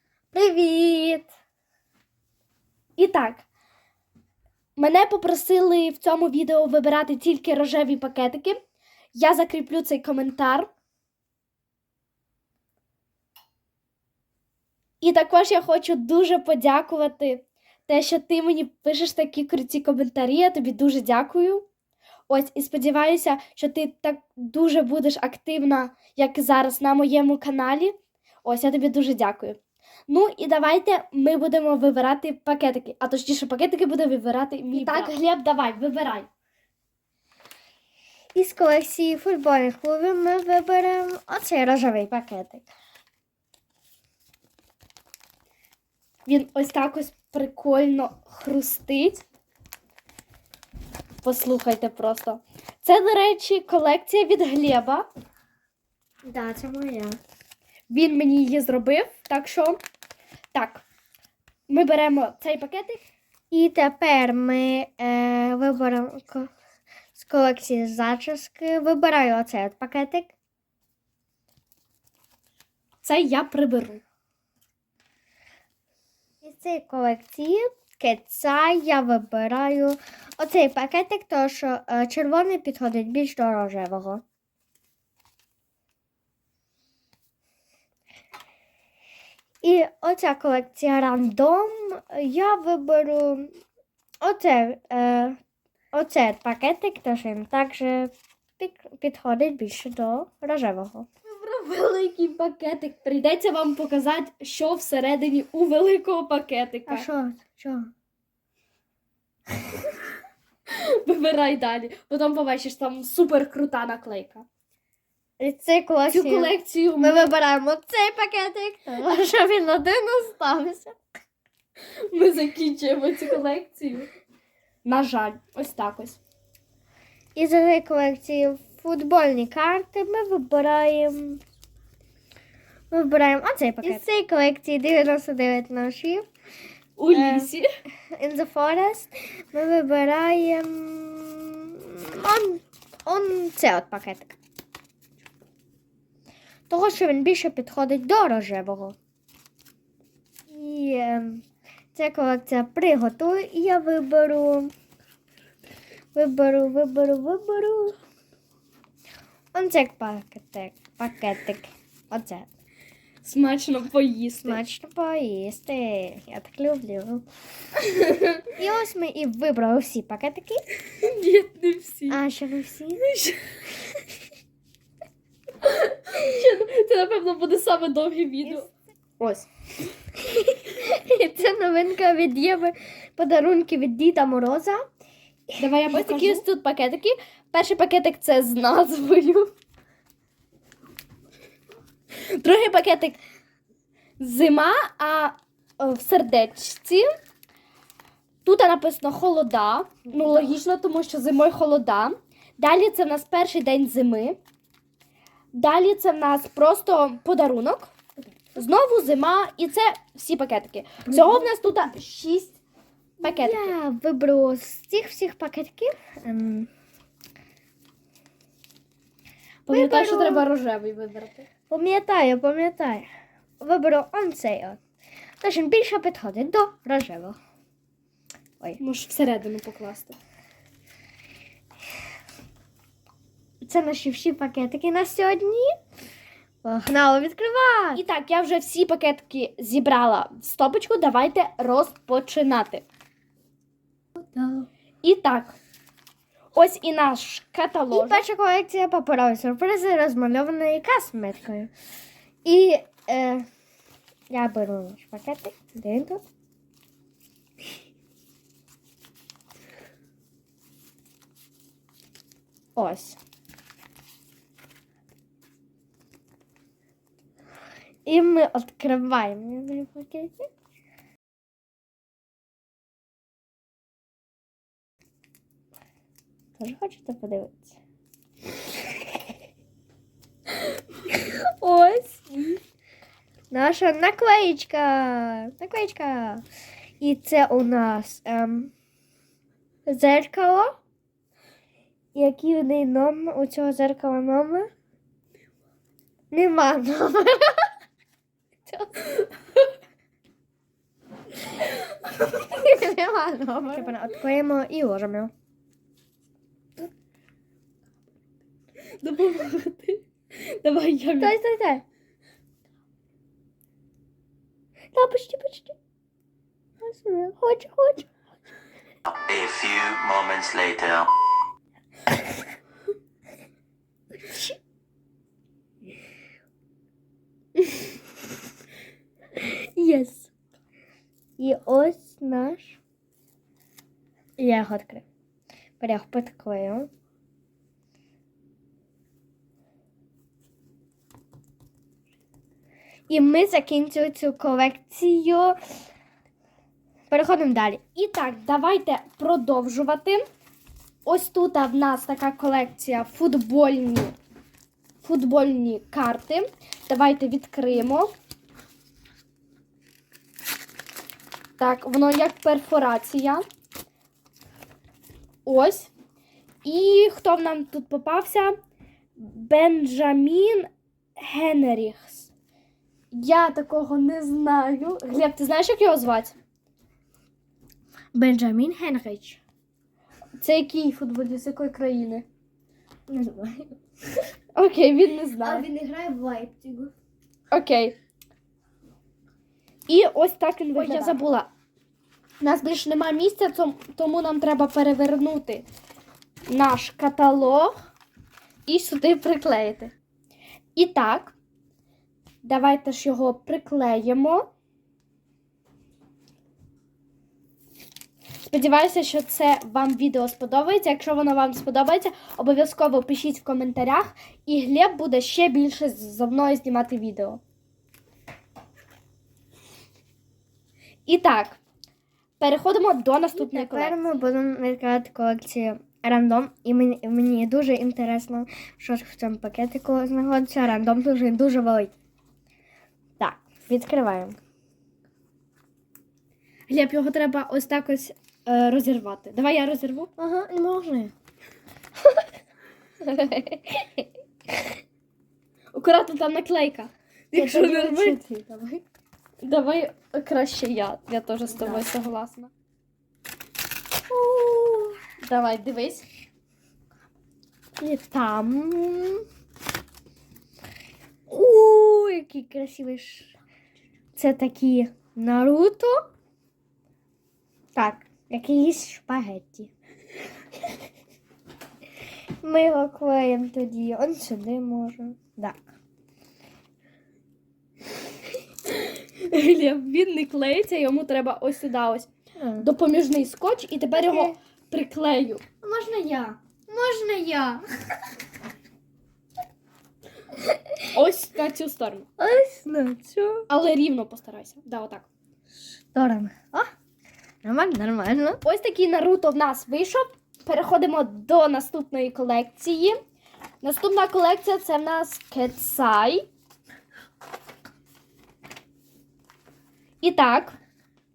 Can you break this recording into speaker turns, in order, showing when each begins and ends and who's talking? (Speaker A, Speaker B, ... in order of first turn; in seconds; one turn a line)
Speaker A: 0.3-1.3
Speaker B: 3.0-3.5
Speaker B: 4.8-8.6
Speaker B: 9.1-10.7
Speaker B: 15.0-21.6
Speaker B: 22.3-36.3
Speaker A: 34.7-35.1
Speaker A: 38.3-42.7
Speaker B: 46.3-49.2
Speaker B: 51.2-55.0
Speaker A: 56.3-57.1
Speaker B: 57.9-59.8
Speaker B: 60.5-60.8
Speaker B: 61.7-63.0
Speaker A: 63.5-66.5
Speaker A: 67.1-70.3
Speaker B: 73.0-74.0
Speaker A: 76.4-84.2
Speaker A: 89.6-93.5
Speaker A: 94.2-95.4
Speaker A: 95.9-101.1
Speaker B: 101.2-107.1
Speaker A: 106.9-107.9
Speaker B: 110.7-114.4
Speaker A: 115.4-121.0
Speaker B: 116.1-117.3
Speaker B: 122.1-124.1
Speaker B: 124.8-126.2
Speaker A: 127.3-131.4
Speaker A: 132.9-136.2
Speaker B: 137.0-137.7
Speaker A: 137.1-137.5
Speaker A: 138.2-144.4
Speaker A: 146.7-148.9
Speaker A: 150.5-151.4
Speaker A: 151.9-154.7
Speaker A: 156.1-157.9
Speaker A: 159.5-162.5
Speaker B: 163.2-164.6
Speaker A: 164.4-167.2
Speaker B: 167.8-168.4
Speaker A: 168.5-170.6
Speaker B: 170.9-172.2
Speaker A: 172.1-173.0
Speaker B: 173.0-173.6
Speaker B: 175.6-178.7
Speaker B: 179.2-179.5
Speaker A: 180.2-184.8
Speaker A: 185.5-186.4
Speaker B: 185.6-189.5
Speaker B: 192.2-193.2
Speaker B: 194.2-197.1
Speaker B: 198.4-204.4
Speaker B: 205.5-207.9
Speaker B: 208.6-212.6
Speaker A: 211.1-211.4
Speaker A: 213.2-216.7
Speaker B: 213.2-213.7
Speaker B: 219.7-221.5
Speaker A: 219.7-220.4
Speaker A: 221.7-223.1
Speaker A: 223.6-224.8
Speaker A: 225.4-227.3
Speaker B: 228.8-230.2
Speaker A: 233.6-235.7
Speaker A: 236.6-238.0
Speaker B: 237.9-242.8
Speaker A: 244.2-244.7
Speaker B: 245.0-245.5
Speaker B: 246.5-248.2
Speaker A: 247.9-251.7
Speaker A: 252.4-253.4
Speaker A: 254.3-256.2
Speaker A: 262.8-263.2
Speaker A: 268.1-270.5
Speaker A: 276.6-277.8
Speaker A: 281.1-282.6
Speaker A: 283.5-286.4
Speaker A: 287.0-288.7
Speaker A: 289.9-290.7
Speaker A: 292.1-294.7
Speaker A: 296.3-297.7
Speaker A: 302.3-305.3
Speaker B: 309.0-311.4
Speaker A: 311.2-311.8
Speaker A: 314.9-315.8
Speaker A: 316.8-318.1
Speaker C: 319.1-321.1
Speaker A: 324.2-324.6
Speaker A: 329.4-330.3
Speaker A: 331.4-332.8
Speaker A: 334.4-335.1
Speaker A: 335.8-336.9
Speaker A: 343.1-345.6
Speaker A: 347.1-347.8
Speaker B: 347.9-350.2
Speaker B: 351.0-354.1
Speaker B: 355.0-358.1
Speaker B: 361.6-363.4
Speaker B: 365.4-365.9
Speaker B: 366.6-368.5
Speaker B: 369.2-372.3
Speaker B: 373.1-376.4
Speaker A: 378.1-379.4
Speaker B: 380.4-382.2
Speaker A: 383.1-383.8
Speaker B: 384.5-385.6
Speaker A: 385.4-386.9
Speaker B: 387.5-387.9
Speaker B: 389.9-391.5
Speaker A: 390.7-391.2
Speaker B: 392.4-395.6
Speaker B: 396.5-397.8
Speaker B: 398.6-399.9
Speaker B: 400.8-401.3
Speaker B: 402.4-404.4
Speaker B: 408.4-417.4
Speaker B: 421.1-421.6
Speaker B: 422.4-424.0
Speaker A: 423.3-431.9
Speaker A: 433.2-434.4
Speaker B: 436.7-440.1
Speaker A: 440.2-441.1
Speaker A: 443.0-444.1
Speaker B: 445.7-448.2
Speaker A: 447.3-448.8
Speaker B: 449.4-452.5
Speaker A: 451.5-451.9
Speaker A: 454.1-455.0
Speaker B: 455.2-456.0
Speaker A: 457.8-459.2
Speaker A: 461.3-463.4
Speaker A: 464.1-466.0
Speaker A: 467.7-469.7
Speaker A: 472.4-475.6
Speaker B: 478.7-482.1
Speaker A: 482.4-482.7
Speaker B: 482.6-485.4
Speaker A: 483.9-484.3
Speaker A: 485.6-487.6
Speaker A: 490.5-490.8
Speaker B: 490.9-492.1
Speaker A: 492.2-493.4
Speaker B: 493.5-495.1
Speaker A: 495.9-496.7
Speaker A: 497.4-498.4
Speaker B: 498.4-503.0
Speaker B: 503.6-506.2
Speaker B: 510.0-510.5